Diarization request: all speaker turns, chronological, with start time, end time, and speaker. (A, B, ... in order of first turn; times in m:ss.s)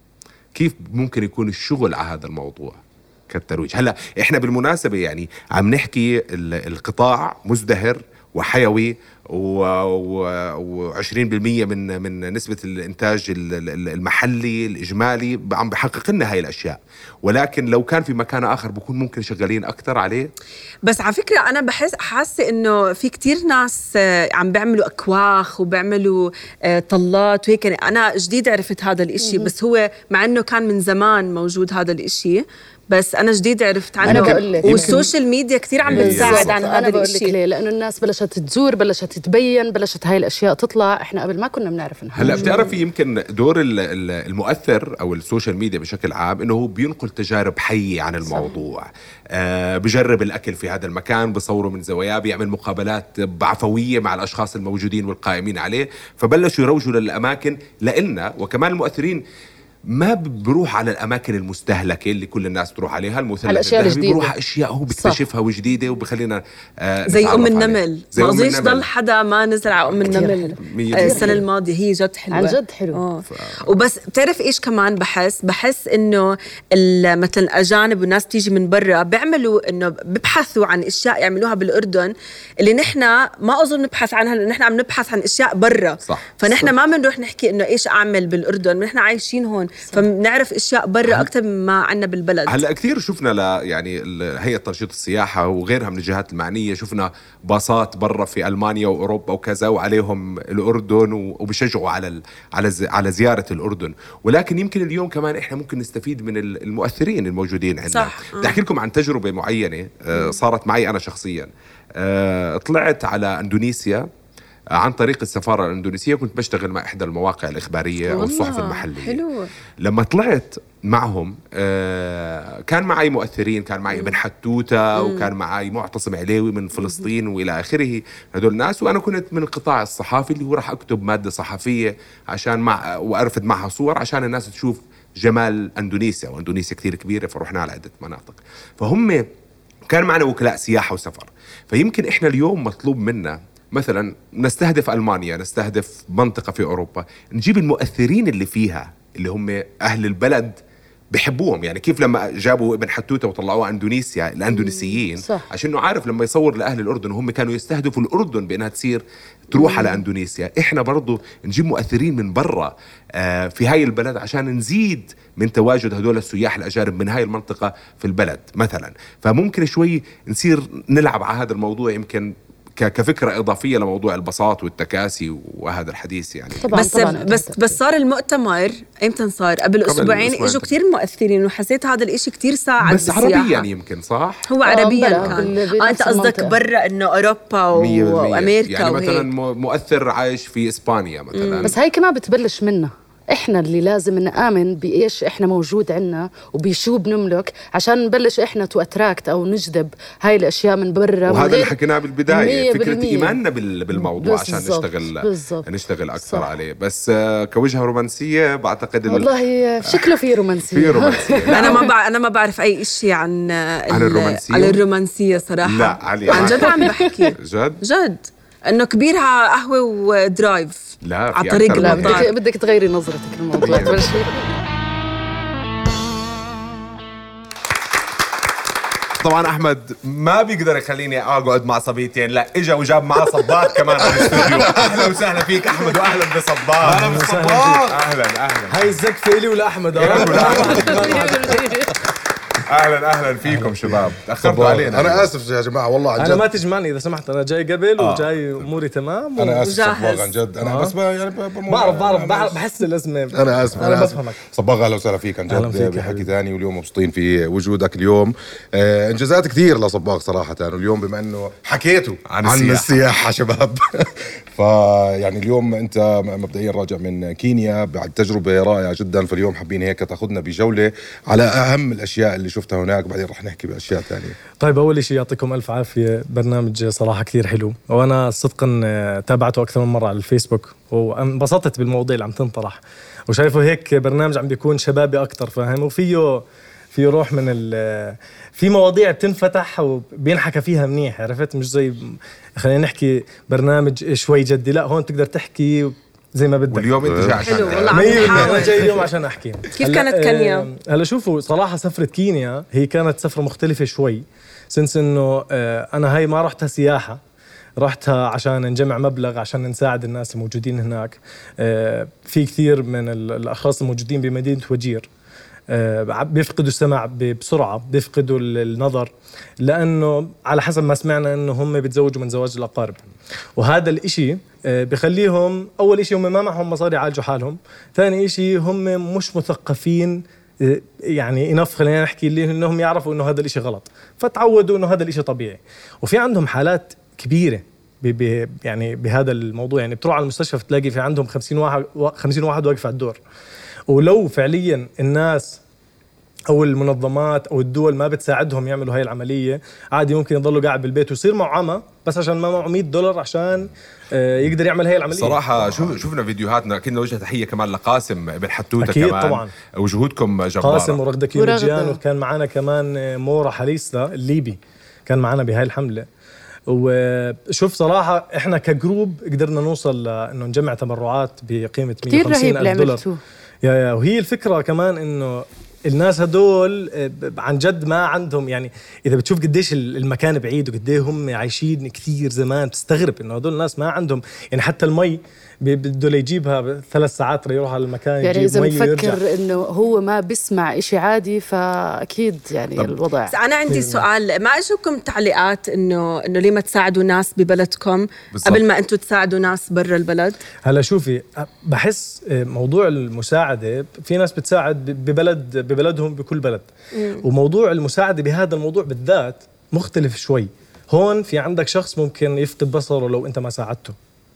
0:00.6-0:20.3 A
0:20.8-0:37.3 B
0:29.2-0:29.5 C
0:34.0-0:35.0 C
0:34.0-0:35.1 A
0:35.8-0:36.6 A
0:35.9-0:42.7 C
0:42.2-0:59.2 A
0:42.2-0:42.6 B
0:48.2-0:48.5 C
0:59.9-1:08.9 A
1:03.5-1:04.3 C
1:04.9-1:05.2 C
1:07.1-1:32.6 B
1:09.9-1:11.4 A
1:10.1-1:11.4 C
1:12.3-1:13.0 C
1:13.3-1:13.7 A
1:26.0-1:26.7 A
1:32.5-1:54.0 A
1:47.9-1:48.6 B
1:54.8-1:59.2 A
1:58.1-1:59.5 B
1:59.8-2:19.2 A
2:03.9-2:04.2 B
2:05.0-2:05.3 B
2:19.9-2:30.6 A
2:31.1-2:56.8 A
2:34.6-2:35.0 B
2:35.2-2:35.5 C
2:39.5-2:40.0 B
2:56.6-2:57.8 C
2:56.7-3:03.7 B
2:59.8-3:00.7 A
3:02.8-3:04.5 A
3:04.5-3:09.3 B
3:04.6-3:06.6 C
3:05.2-3:05.5 A
3:07.7-3:11.8 A
3:11.3-3:11.8 B
3:11.6-3:21.7 C
3:21.3-3:31.9 A
3:22.3-3:23.4 C
3:23.9-3:25.7 C
3:26.2-3:26.5 C
3:29.1-3:31.9 C
3:31.5-3:42.3 B
3:33.9-3:34.8 A
3:35.6-3:37.8 A
3:36.3-3:37.2 C
3:41.0-3:42.3 A
3:41.8-3:44.4 C
3:43.6-3:44.2 A
3:49.2-3:59.0 A
3:54.6-3:55.0 D
3:56.8-3:58.0 E
3:58.7-4:01.8 E
4:00.0-4:01.5 A
4:00.3-4:01.0 D
4:01.2-4:01.8 B
4:02.6-4:05.3 A
4:04.4-4:06.5 D
4:06.2-4:09.6 E
4:08.0-4:08.3 A
4:09.4-4:12.6 D
4:09.6-4:10.3 B
4:10.6-4:11.0 E
4:11.7-4:14.4 E
4:13.3-4:34.4 D
4:15.5-4:16.3 E
4:22.3-4:23.0 A
4:34.6-4:57.0 E
4:56.7-4:58.7 A
4:57.0-4:57.7 D
4:57.4-4:58.9 B
4:57.9-5:07.2 E
4:59.7-5:00.7 B
5:07.8-5:15.1 E
5:15.7-5:23.0 E
5:23.6-5:43.2 E
5:43.9-5:45.6 E
5:46.5-5:55.4 E
5:55.1-6:01.0 A
5:55.6-5:56.0 D
5:58.8-5:59.5 E
6:00.6-6:06.1 E
6:01.4-6:02.0 C
6:06.7-6:13.0 E
6:12.0-6:13.2 C
6:13.6-6:29.2 E
6:28.2-6:33.4 C
6:33.3-6:40.4 B
6:33.7-6:34.0 E
6:38.3-6:38.6 A
6:40.6-6:54.0 E
6:46.9-6:47.2 B